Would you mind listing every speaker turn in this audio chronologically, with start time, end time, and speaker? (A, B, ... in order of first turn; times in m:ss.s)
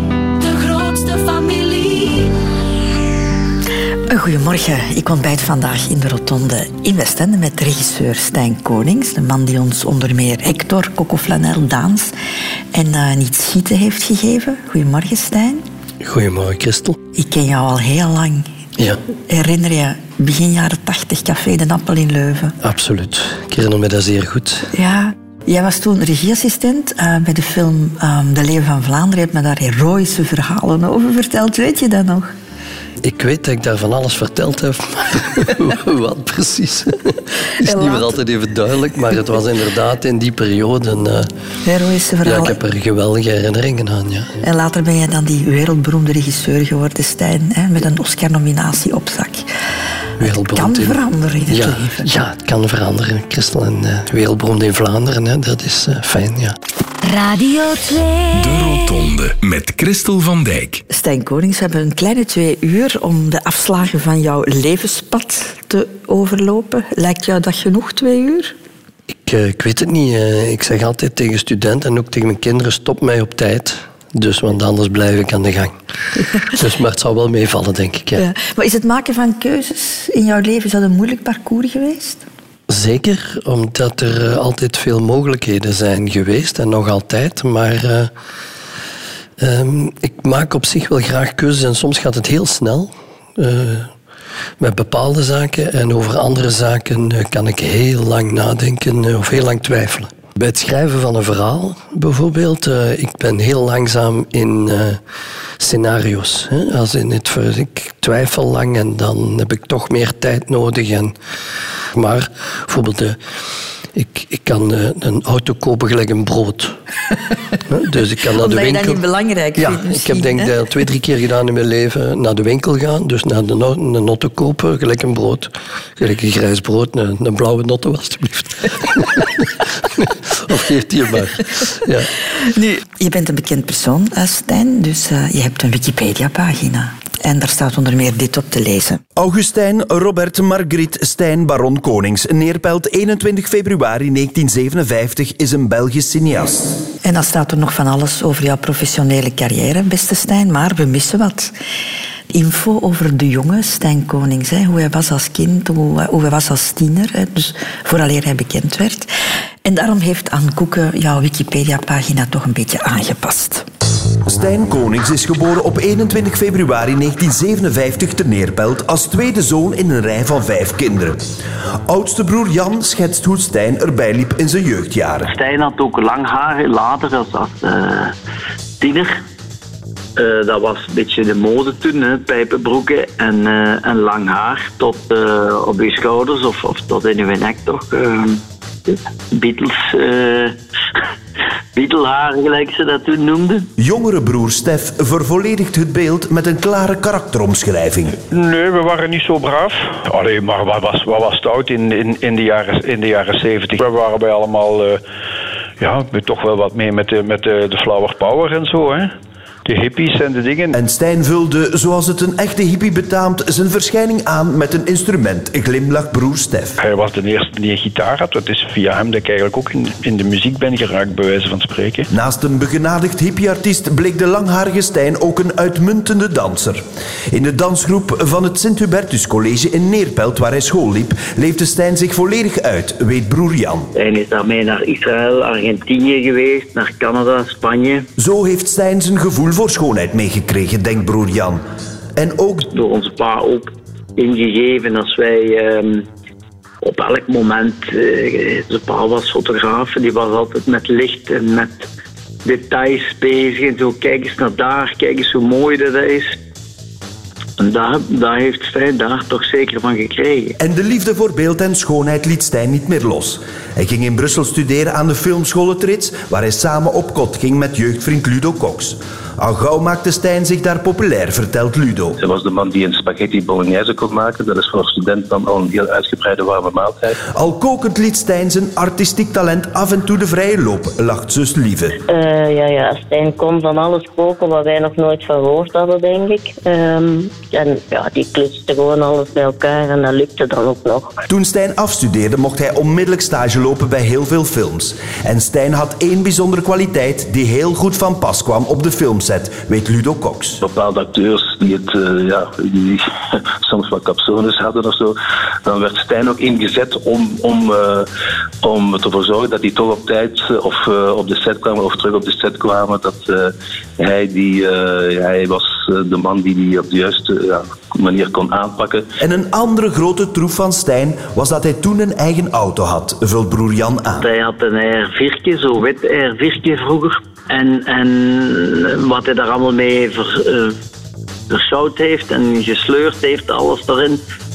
0:00.4-0:02.4 A
0:04.1-0:12.1 B
0:12.7-0:15.6 B
0:16.0-0:17.0 C
0:17.2-0:18.5 B
0:18.8-0:19.0 C
0:19.3-0:22.6 B
0:22.6-0:24.7 C
0:24.7-0:32.3 B
0:33.0-0:41.3 C
0:37.6-0:38.2 B
0:41.6-0:42.6 B
0:42.2-0:44.4 C
0:44.4-0:49.5 B
0:50.2-0:56.6 C
0:50.2-0:52.1 B
0:57.0-0:58.8 A
0:58.3-1:00.8 D
1:00.9-1:08.5 B
1:09.1-1:15.8 C
1:16.5-1:18.2 C
1:18.2-1:22.2 B
1:22.7-1:28.1 C
1:29.4-1:33.9 C
1:34.6-1:45.0 C
1:45.6-1:51.2 C
1:51.9-1:53.2 C
1:53.9-1:56.8 C
1:57.7-1:59.0 C
1:58.4-2:00.5 B
1:59.6-2:12.1 C
2:12.3-2:19.0 B
2:19.2-2:26.8 E
2:27.0-2:31.5 B
2:32.3-2:39.1 B
2:39.6-2:43.7 B
2:44.2-2:51.2 E
2:51.9-2:55.3 E
2:55.3-2:58.2 F
2:58.8-2:59.2 F
3:00.2-3:10.6 F
3:11.7-3:13.7 F
3:13.8-3:18.2 E
3:18.3-3:25.0 G
3:25.8-3:29.1 G
3:29.7-3:30.8 G
3:30.7-3:36.8 E
3:36.8-3:42.1 G
3:42.1-3:53.9 E
3:53.9-3:58.1 F
3:58.2-4:01.6 E
4:02.2-4:02.7 E
4:02.7-4:06.1 F
4:06.8-4:11.9 F
4:12.4-4:16.4 F
4:17.6-4:20.6 F
4:20.6-4:32.2 E
4:32.2-4:37.2 H
4:37.3-4:42.0 E
4:42.1-4:51.2 I
4:51.3-5:00.6 E
5:00.6-5:03.0 H
5:03.6-5:08.1 H
5:08.6-5:19.1 H
5:19.2-5:24.3 E
5:24.2-5:30.8 F
5:31.5-5:34.2 F